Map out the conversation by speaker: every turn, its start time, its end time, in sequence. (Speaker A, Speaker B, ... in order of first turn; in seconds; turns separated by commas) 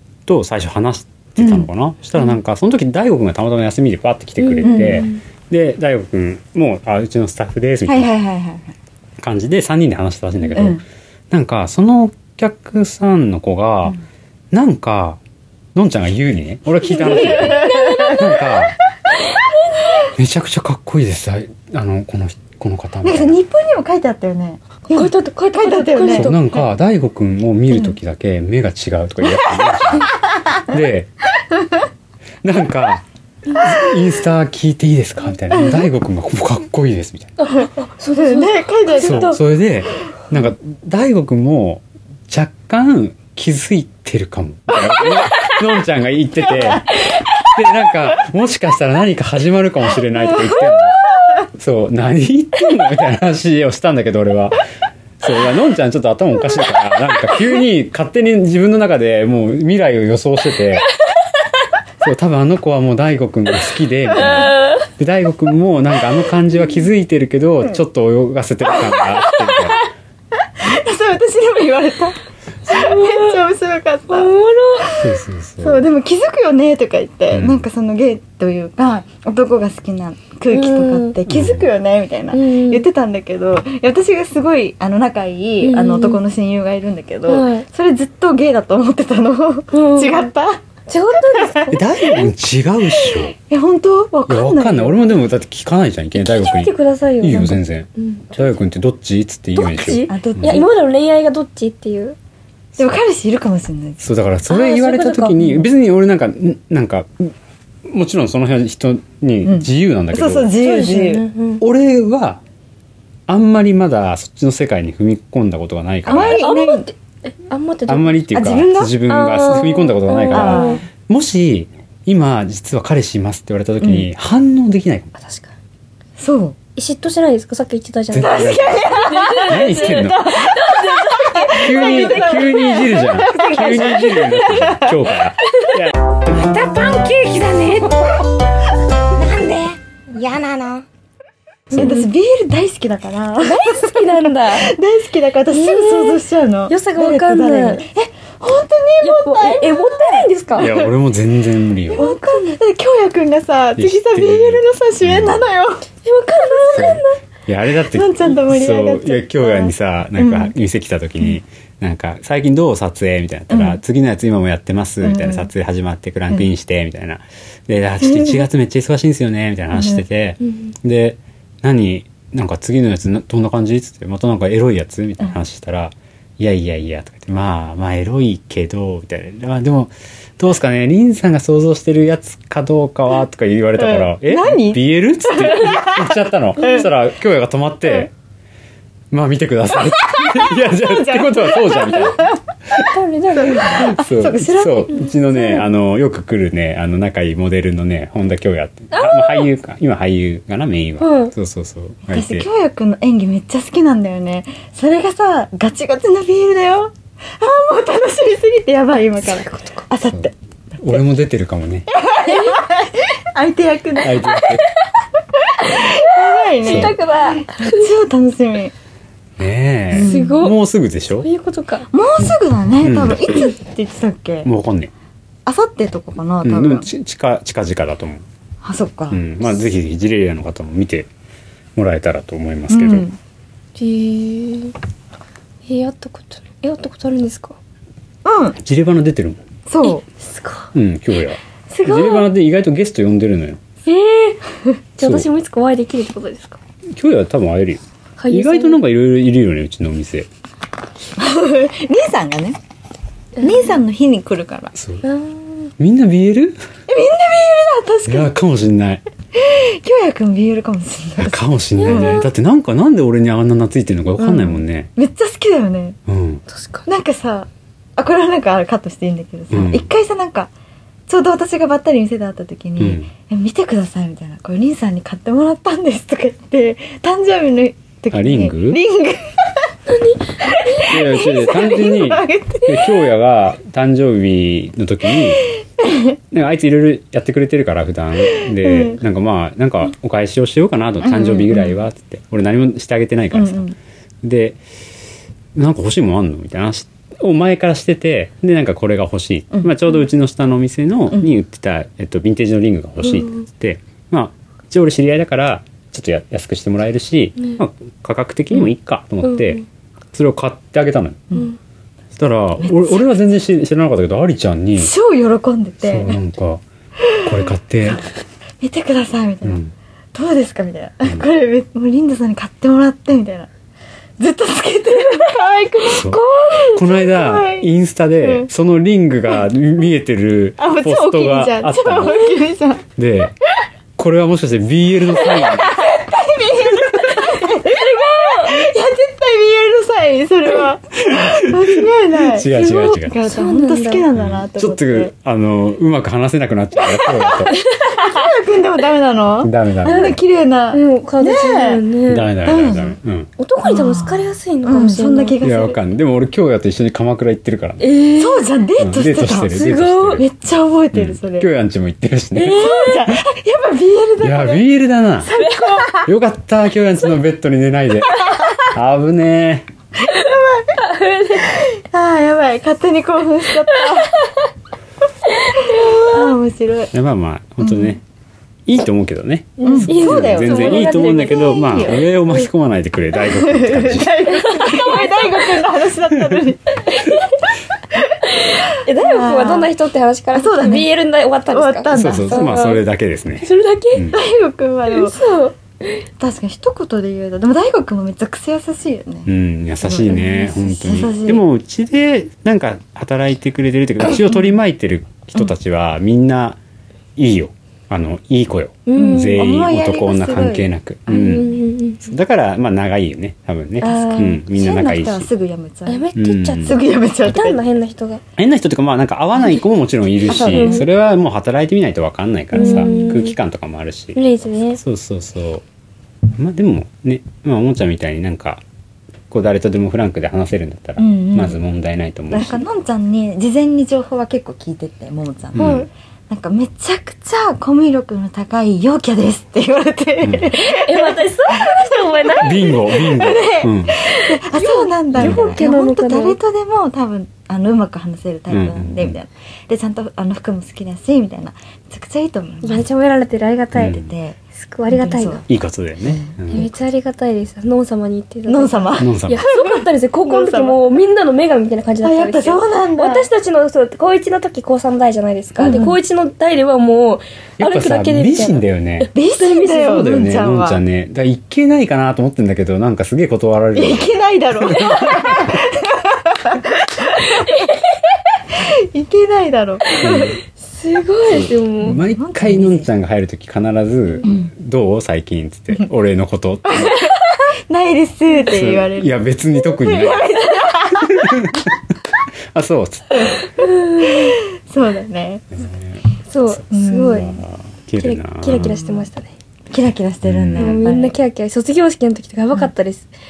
Speaker A: 0.2-8.1, Speaker B: 1.4-1.7, Speaker C: 4.6-5.2, Speaker B: 4.6-5.1, Speaker B: 7.8-8.7, Speaker A: 9.2-14.0, Speaker B: 10.5-10.8, Speaker A: 14.5-15.2, Speaker A: 15.7-18.8, Speaker B: 16.9-18.2, Speaker C: 17.0-18.3, Speaker C: 19.3-20.0, Speaker A: 20.1-23.4, Speaker B: 23.0-26.6, Speaker C: 24.9-26.4, Speaker A: 26.1-31.1, Speaker A: 32.4-37.3, Speaker C: 37.4-39.4, Speaker B: 38.1-39.4, Speaker A: 39.0-46.9, Speaker A: 47.4-54.6, Speaker A: 55.2-60.9, Speaker A: 62.0-69.9, Speaker C: 64.2-64.8, Speaker B: 70.3-75.0, Speaker C: 72.7-73.4, Speaker C: 74.1-75.0, Speaker A: 74.9-75.9, Speaker B: 75.6-90.6, Speaker A: 77.3-77.6, Speaker C: 80.5-81.2, Speaker A: 81.3-81.7, Speaker C: 82.3-82.8, Speaker C: 85.6-86.2, Speaker C: 87.3-87.7, Speaker C: 89.7-90.3, Speaker C: 90.9-91.8, Speaker B: 91.3-91.8, Speaker A: 91.7-93.3, Speaker B: 93.0-95.2, Speaker A: 94.3-100.6, Speaker C: 96.1-98.6, Speaker C: 99.5-102.2, Speaker B: 100.1-100.7, Speaker B: 102.8-104.0, Speaker A: 104.0-107.3, Speaker C: 104.5-105.4, Speaker A: 107.8-110.5, Speaker B: 109.4-111.2, Speaker C: 110.6-111.6, Speaker A: 111.6-112.4, Speaker A: 113.3-116.5, Speaker B: 116.0-116.9, Speaker C: 116.1-118.2, Speaker A: 117.9-125.1, Speaker B: 118.3-118.9, Speaker C: 119.1-120.8, Speaker B: 120.3-120.8, Speaker B: 123.8-124.1, Speaker C: 125.2-125.5, Speaker B: 126.2-126.6, Speaker C: 126.8-134.3, Speaker A: 128.1-130.2, Speaker B: 128.1-134.9, Speaker A: 131.5-135.9, Speaker C: 136.6-137.9, Speaker C: 140.2-140.7, Speaker C: 141.7-142.1, Speaker B: 141.7-150.9, Speaker C: 143.4-144.7, Speaker C: 145.5-147.8, Speaker C: 149.0-150.7, Speaker A: 150.6-152.0, Speaker B: 151.9-155.8, Speaker C: 151.9-152.6, Speaker A: 153.8-155.4, Speaker C: 156.0-157.1, Speaker A: 156.7-188.1, Speaker B: 157.9-160.5, Speaker B: 163.5-163.8, Speaker B: 165.0-165.5, Speaker B: 168.0-168.4, Speaker B: 169.7-170.0, Speaker B: 183.8-186.9, Speaker C: 186.6-186.8, Speaker A: 189.1-192.8, Speaker B: 190.1-192.4, Speaker C: 192.8-193.8, Speaker B: 193.3-195.1, Speaker A: 193.6-202.5, Speaker C: 198.9-199.5, Speaker C: 201.0-201.3, Speaker B: 202.1-210.3, Speaker C: 209.4-209.8, Speaker A: 210.8-211.9, Speaker B: 211.9-214.4, Speaker A: 214.0-214.7, Speaker B: 215.3-218.7, Speaker C: 215.7-217.9, Speaker A: 216.6-216.9, Speaker A: 219.4-221.3, Speaker B: 219.9-220.5, Speaker C: 220.0-220.6, Speaker C: 221.2-221.9, Speaker B: 221.9-224.5, Speaker A: 222.8-223.5, Speaker A: 224.4-224.9, Speaker B: 225.4-226.9, Speaker A: 226.4-228.2, Speaker B: 228.6-229.2, Speaker A: 229.1-231.1, Speaker A: 231.8-233.1, Speaker B: 232.7-233.2, Speaker C: 233.8-234.7, Speaker C: 235.7-237.6, Speaker B: 238.2-238.6, Speaker A: 238.6-239.4, Speaker B: 239.7-240.0, Speaker C: 239.8-240.7, Speaker A: 240.7-243.6, Speaker C: 241.7-242.3, Speaker C: 243.8-246.6, Speaker A: 245.0-245.3, Speaker A: 246.9-250.3, Speaker C: 248.2-248.8, Speaker B: 251.2-252.6, Speaker C: 253.4-253.8, Speaker B: 253.4-254.7, Speaker A: 254.7-255.0, Speaker C: 255.0-255.7, Speaker A: 255.8-256.6, Speaker B: 256.9-258.3, Speaker A: 258.1-259.0, Speaker B: 259.3-262.3, Speaker A: 261.2-264.9, Speaker C: 261.8-262.2, Speaker B: 264.2-266.0, Speaker A: 266.1-266.4, Speaker C: 266.5-266.9, Speaker B: 266.9-270.5, Speaker A: 269.5-269.9, Speaker B: 271.1-279.7, Speaker A: 272.8-273.1, Speaker A: 278.1-278.8, Speaker C: 279.9-281.0, Speaker B: 280.4-283.0, Speaker A: 280.8-285.5, Speaker B: 285.6-286.1, Speaker A: 286.3-293.7, Speaker B: 288.4-289.0, Speaker B: 291.0-291.8, Speaker B: 293.3-293.8, Speaker A: 294.2-294.6, Speaker A: 295.5-311.2, Speaker C: 309.3-309.6, Speaker A: 312.1-314.9, Speaker B: 312.6-313.1, Speaker B: 314.8-316.1, Speaker A: 315.8-316.6, Speaker B: 317.0-317.3, Speaker A: 317.2-318.1, Speaker B: 318.6-319.6, Speaker A: 319.4-319.7, Speaker B: 320.1-323.5, Speaker B: 324.2-328.5, Speaker A: 325.9-332.2, Speaker C: 326.1-326.8, Speaker B: 330.6-332.8, Speaker A: 332.9-333.3, Speaker A: 334.0-335.9, Speaker B: 335.2-345.1, Speaker C: 337.0-338.7, Speaker A: 341.0-343.2, Speaker C: 343.2-344.1, Speaker A: 344.1-347.6, Speaker C: 347.5-348.1, Speaker B: 347.8-351.8, Speaker A: 349.4-350.1, Speaker C: 349.8-350.2, Speaker C: 350.7-352.3, Speaker A: 352.1-353.3, Speaker B: 352.4-352.9, Speaker C: 353.4-355.4, Speaker B: 353.6-355.8, Speaker A: 355.4-357.9, Speaker C: 357.8-358.5, Speaker B: 358.1-359.6, Speaker A: 358.8-360.2, Speaker C: 359.4-360.2, Speaker B: 360.1-361.5, Speaker A: 360.9-362.9, Speaker B: 362.4-364.6, Speaker C: 362.4-363.0, Speaker A: 364.2-365.3, Speaker B: 365.2-366.1, Speaker C: 365.4-365.9, Speaker A: 366.0-369.7, Speaker B: 370.0-370.8, Speaker C: 370.8-371.6, Speaker B: 371.4-374.2, Speaker C: 373.8-374.2, Speaker C: 375.4-376.4, Speaker B: 375.6-376.9, Speaker A: 376.9-378.0, Speaker B: 377.6-377.9, Speaker A: 378.7-384.5, Speaker C: 379.6-382.1, Speaker B: 379.6-382.1, Speaker B: 383.3-387.0, Speaker C: 384.4-385.6, Speaker C: 386.9-387.3, Speaker B: 387.9-389.7, Speaker C: 388.3-392.8, Speaker B: 390.3-390.9, Speaker B: 391.5-392.6, Speaker A: 391.9-394.2, Speaker C: 393.4-394.1, Speaker B: 394.1-395.2, Speaker C: 394.9-396.0, Speaker B: 396.2-399.3, Speaker A: 399.2-406.6, Speaker B: 399.8-401.4, Speaker A: 407.2-415.3, Speaker C: 408.9-409.4, Speaker B: 408.9-411.5, Speaker C: 411.1-412.0, Speaker C: 413.8-414.4, Speaker B: 413.9-416.1, Speaker C: 415.9-418.2, Speaker A: 416.1-416.8, Speaker B: 416.6-417.6, Speaker A: 418.4-424.2, Speaker B: 420.3-420.9, Speaker C: 420.3-420.8, Speaker C: 422.5-423.3, Speaker B: 422.5-423.1, Speaker C: 424.1-424.8, Speaker A: 424.8-425.6, Speaker A: 426.4-428.6, Speaker A: 429.3-432.6, Speaker B: 431.0-431.6, Speaker B: 432.3-452.8, Speaker A: 435.5-435.9, Speaker C: 435.6-435.9, Speaker A: 440.2-440.5, Speaker C: 440.6-442.8, Speaker A: 442.4-444.0, Speaker C: 444.3-446.4, Speaker A: 445.2-445.5, Speaker A: 448.5-449.2, Speaker C: 452.6-454.0, Speaker A: 453.7-454.1, Speaker B: 453.8-454.4, Speaker C: 454.6-455.4, Speaker B: 454.9-455.4, Speaker A: 455.5-456.7, Speaker B: 456.0-456.4, Speaker C: 456.5-470.1, Speaker B: 458.5-460.8, Speaker A: 459.0-459.4, Speaker B: 462.0-463.3, Speaker B: 465.6-466.0, Speaker A: 467.6-469.1, Speaker B: 469.1-470.8, Speaker A: 469.8-474.1, Speaker B: 473.7-477.7, Speaker A: 474.6-475.6, Speaker B: 478.5-480.3, Speaker A: 480.0-480.4, Speaker C: 480.1-482.0, Speaker A: 481.3-487.0, Speaker B: 481.8-482.9, Speaker B: 486.7-491.6, Speaker A: 488.5-491.8, Speaker A: 492.5-493.3, Speaker C: 493.6-494.3, Speaker B: 493.6-495.4, Speaker A: 495.5-496.6, Speaker C: 496.3-497.3, Speaker B: 496.7-497.3, Speaker A: 497.1-498.8, Speaker C: 498.0-499.3, Speaker B: 498.6-499.1, Speaker B: 499.7-501.1, Speaker A: 500.2-500.8, Speaker C: 500.6-503.1